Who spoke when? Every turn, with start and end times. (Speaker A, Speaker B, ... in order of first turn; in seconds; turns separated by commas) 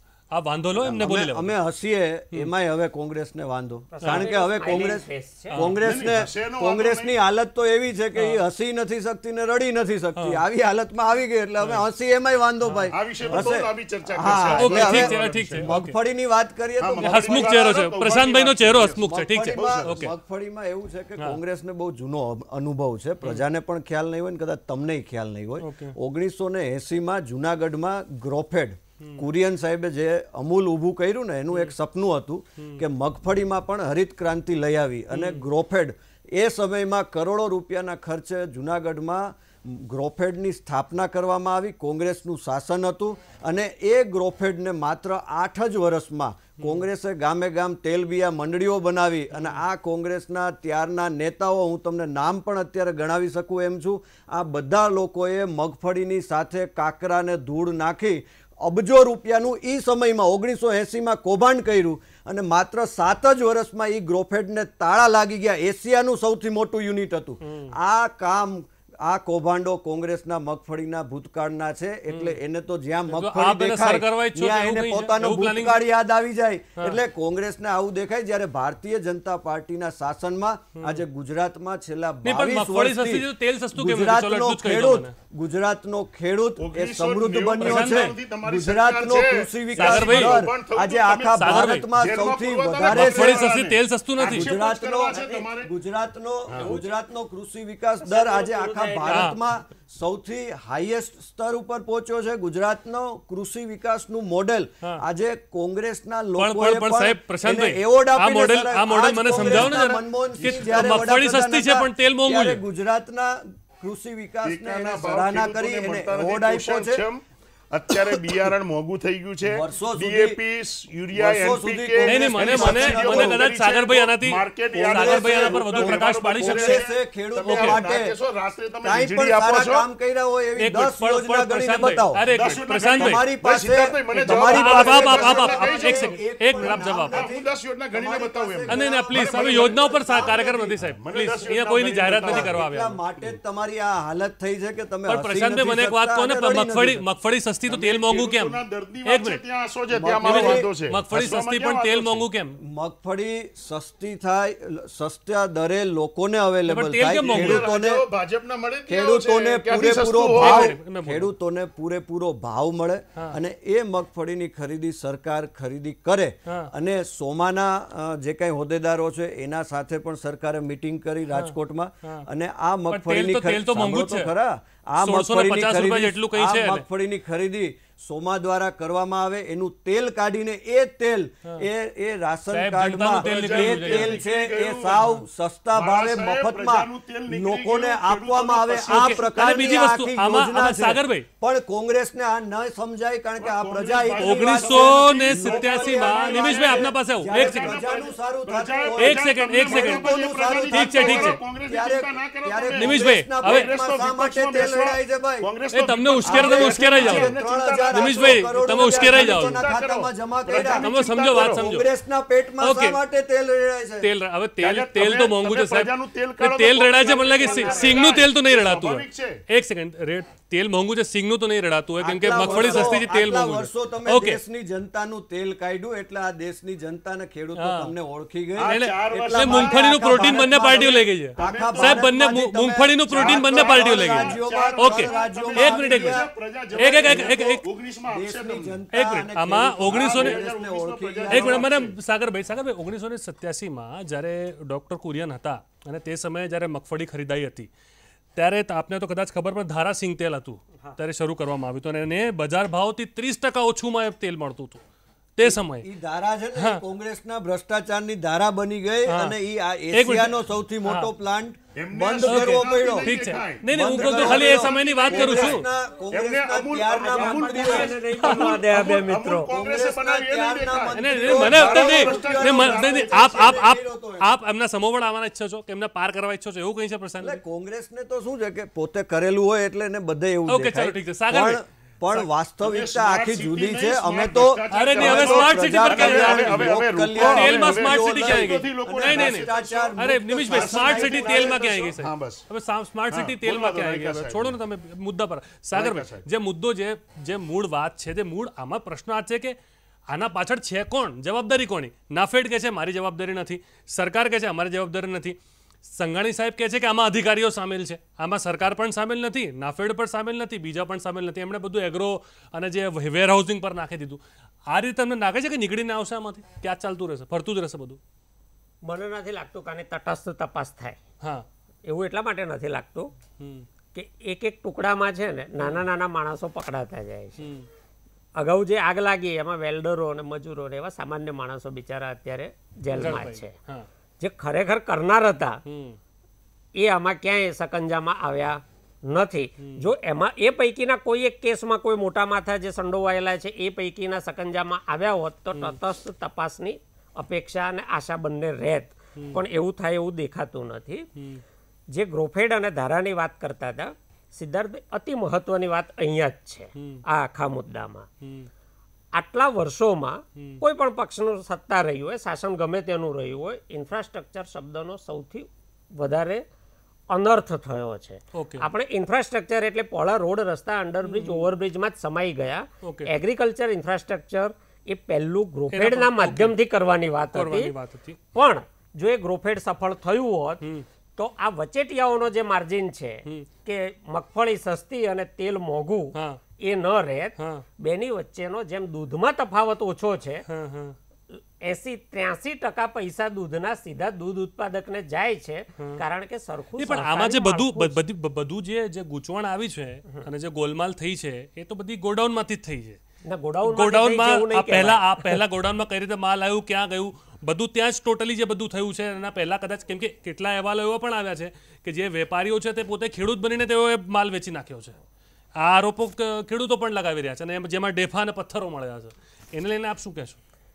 Speaker A: 0.3-1.5, Speaker B: 0.8-17.6, Speaker C: 3.9-5.6, Speaker A: 4.0-4.9, Speaker A: 5.5-5.8, Speaker D: 5.8-7.1, Speaker A: 10.2-10.4, Speaker A: 12.6-13.5, Speaker D: 12.9-15.7, Speaker A: 14.6-15.9, Speaker D: 16.8-20.1, Speaker A: 17.0-20.1, Speaker B: 19.0-93.5, Speaker A: 25.6-25.9, Speaker A: 35.1-35.4, Speaker A: 49.3-49.6, Speaker A: 67.4-67.7, Speaker A: 72.1-72.4, Speaker A: 73.1-75.8, Speaker A: 82.2-85.1, Speaker D: 86.6-95.7, Speaker A: 87.6-88.1, Speaker A: 89.8-90.4, Speaker A: 91.4-91.8, Speaker A: 92.9-94.5, Speaker B: 94.3-117.0, Speaker C: 95.1-95.5, Speaker D: 96.5-96.7, Speaker C: 96.5-97.0, Speaker C: 98.0-99.3, Speaker A: 99.1-99.3, Speaker A: 106.4-112.6, Speaker D: 110.4-110.9, Speaker D: 114.4-129.8, Speaker B: 119.4-120.4, Speaker B: 121.1-123.5, Speaker A: 122.0-126.8, Speaker B: 124.8-128.1, Speaker A: 127.5-127.8, Speaker B: 128.8-132.2, Speaker A: 130.6-133.2, Speaker D: 132.3-142.6, Speaker B: 132.9-140.7, Speaker A: 134.1-137.3, Speaker A: 138.7-143.0, Speaker B: 142.2-147.0, Speaker A: 145.1-149.4, Speaker D: 147.7-152.2, Speaker B: 149.9-150.7, Speaker A: 150.2-152.6, Speaker B: 152.6-158.0, Speaker A: 156.7-157.7, Speaker D: 157.2-160.7, Speaker B: 158.9-205.5, Speaker A: 160.3-161.3, Speaker A: 171.3-172.2, Speaker A: 172.9-174.3, Speaker A: 175.0-176.8, Speaker A: 182.5-184.2, Speaker D: 183.1-185.1, Speaker D: 185.7-189.3, Speaker A: 188.9-191.2, Speaker D: 193.4-211.7, Speaker A: 194.2-197.8, Speaker A: 199.0-200.1, Speaker A: 200.7-201.4, Speaker A: 202.8-203.7, Speaker A: 205.7-207.3, Speaker B: 206.2-210.8, Speaker A: 207.9-209.6, Speaker A: 210.5-211.8, Speaker B: 211.4-214.1, Speaker A: 212.6-213.0, Speaker A: 214.0-224.4, Speaker D: 214.6-219.4, Speaker B: 217.4-218.1, Speaker B: 222.0-236.2, Speaker D: 222.3-223.1, Speaker A: 227.6-227.9, Speaker D: 228.6-232.1, Speaker A: 228.7-236.2, Speaker D: 233.1-238.8, Speaker A: 236.8-237.6, Speaker B: 237.0-237.5, Speaker B: 238.1-241.6, Speaker A: 238.9-240.4, Speaker D: 239.9-241.9, Speaker A: 241.3-247.7, Speaker A: 248.3-254.8, Speaker A: 255.4-255.9, Speaker B: 255.4-263.2, Speaker A: 256.5-256.8, Speaker A: 259.1-259.4, Speaker A: 259.9-261.1, Speaker D: 261.7-273.6, Speaker A: 262.2-265.6, Speaker B: 263.7-267.9, Speaker C: 267.0-269.5, Speaker A: 268.2-268.5, Speaker B: 269.5-274.3, Speaker A: 270.9-277.4, Speaker B: 277.2-291.9, Speaker A: 280.5-281.6, Speaker D: 282.6-292.4, Speaker A: 284.7-299.6, Speaker D: 293.1-294.6, Speaker D: 295.7-296.2, Speaker A: 300.1-318.0, Speaker C: 318.8-321.0, Speaker C: 321.8-323.1, Speaker A: 323.4-323.7, Speaker C: 323.9-327.5, Speaker A: 327.4-327.7, Speaker C: 328.4-333.5, Speaker A: 332.9-333.9, Speaker C: 334.2-335.6, Speaker A: 335.6-336.0, Speaker C: 336.8-351.1, Speaker A: 349.1-349.4, Speaker A: 351.1-351.4, Speaker C: 351.9-358.1, Speaker A: 356.8-357.0, Speaker A: 358.2-358.5, Speaker C: 359.1-366.4, Speaker C: 367.1-377.7, Speaker A: 368.3-368.6, Speaker A: 371.0-371.5, Speaker A: 372.8-373.1, Speaker A: 375.7-376.5, Speaker A: 377.3-378.2, Speaker C: 378.3-380.6, Speaker C: 381.2-390.4, Speaker A: 386.1-386.4, Speaker A: 387.4-387.6, Speaker A: 390.5-390.9, Speaker C: 391.3-398.0, Speaker A: 396.8-403.0, Speaker C: 403.2-405.4, Speaker A: 403.6-415.0, Speaker A: 415.6-420.4